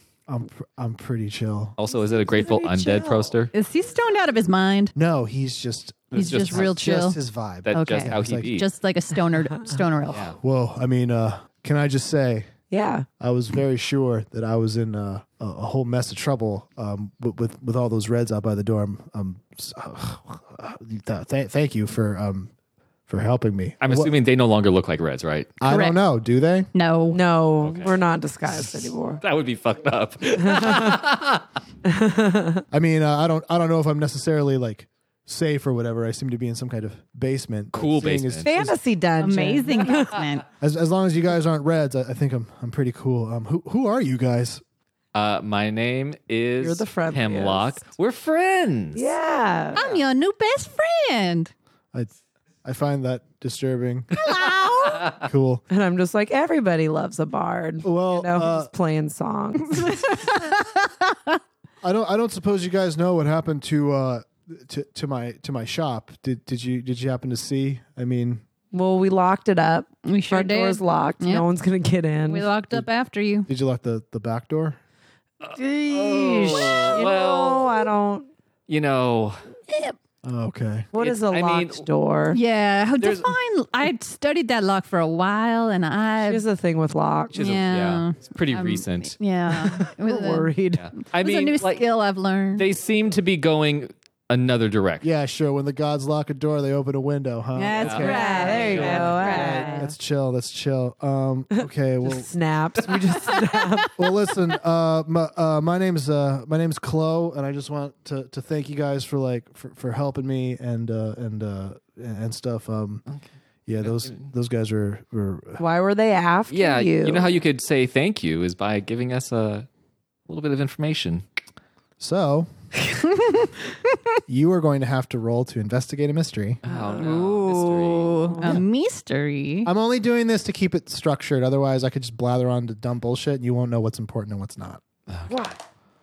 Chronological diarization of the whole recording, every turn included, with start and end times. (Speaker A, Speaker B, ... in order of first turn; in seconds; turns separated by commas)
Speaker A: 0.3-1.8, Speaker B: 1.8-3.5, Speaker C: 2.0-3.3, Speaker D: 3.5-4.9, Speaker A: 4.9-8.5, Speaker D: 6.1-7.2, Speaker B: 6.1-6.7, Speaker B: 7.7-8.7, Speaker D: 7.7-10.3, Speaker C: 9.4-9.8, Speaker B: 10.1-10.3, Speaker A: 10.4-12.5, Speaker C: 12.7-13.1, Speaker A: 13.2-22.5, Speaker A: 23.1-24.1, Speaker B: 23.8-25.6, Speaker A: 25.6-26.7, Speaker D: 25.7-26.0, Speaker D: 26.7-27.2, Speaker C: 27.1-29.2, Speaker B: 27.6-28.0, Speaker B: 28.5-31.5, Speaker C: 30.4-31.0, Speaker C: 31.9-32.6, Speaker A: 32.7-38.8, Speaker B: 37.7-38.5, Speaker C: 38.4-40.2, Speaker D: 39.2-40.5, Speaker A: 40.6-44.6, Speaker B: 45.1-49.1, Speaker C: 46.6-47.8, Speaker C: 48.9-49.8, Speaker B: 49.7-50.0, Speaker D: 49.7-51.5, Speaker A: 52.6-54.3, Speaker D: 54.1-55.2, Speaker A: 55.1-55.6, Speaker C: 55.7-60.2, Speaker A: 57.8-58.7, Speaker D: 59.7-61.4, Speaker A: 61.8-68.4, Speaker C: 68.7-72.5, Speaker D: 70.0-71.4, Speaker D: 72.3-73.5, Speaker A: 73.5-74.8, Speaker B: 75.4-77.9, Speaker C: 75.6-78.3, Speaker D: 76.5-77.0, Speaker B: 78.7-79.4, Speaker A: 80.2-80.9, Speaker C: 80.9-82.4, Speaker B: 80.9-81.8, Speaker D: 82.3-86.4, Speaker B: 83.0-83.3, Speaker C: 86.2-87.5, Speaker B: 87.3-89.1, Speaker D: 87.3-92.7, Speaker C: 89.5-90.8, Speaker B: 90.7-91.9, Speaker B: 92.5-95.0, Speaker A: 95.0-102.3, Speaker D: 97.5-99.8, Speaker B: 97.7-99.3, Speaker C: 97.9-99.9, Speaker C: 101.6-104.1, Speaker A: 104.0-113.0, Speaker A: 113.7-115.6, Speaker B: 113.8-114.2, Speaker C: 115.6-117.3, Speaker B: 116.5-119.7, Speaker B: 120.3-121.2, Speaker A: 122.0-122.5, Speaker D: 123.1-123.5, Speaker A: 124.3-126.6, Speaker B: 126.6-128.2, Speaker C: 126.7-127.2, Speaker D: 126.9-129.7, Speaker C: 128.2-128.6, Speaker A: 129.6-134.8, Speaker B: 135.1-135.3, Speaker C: 135.3-135.6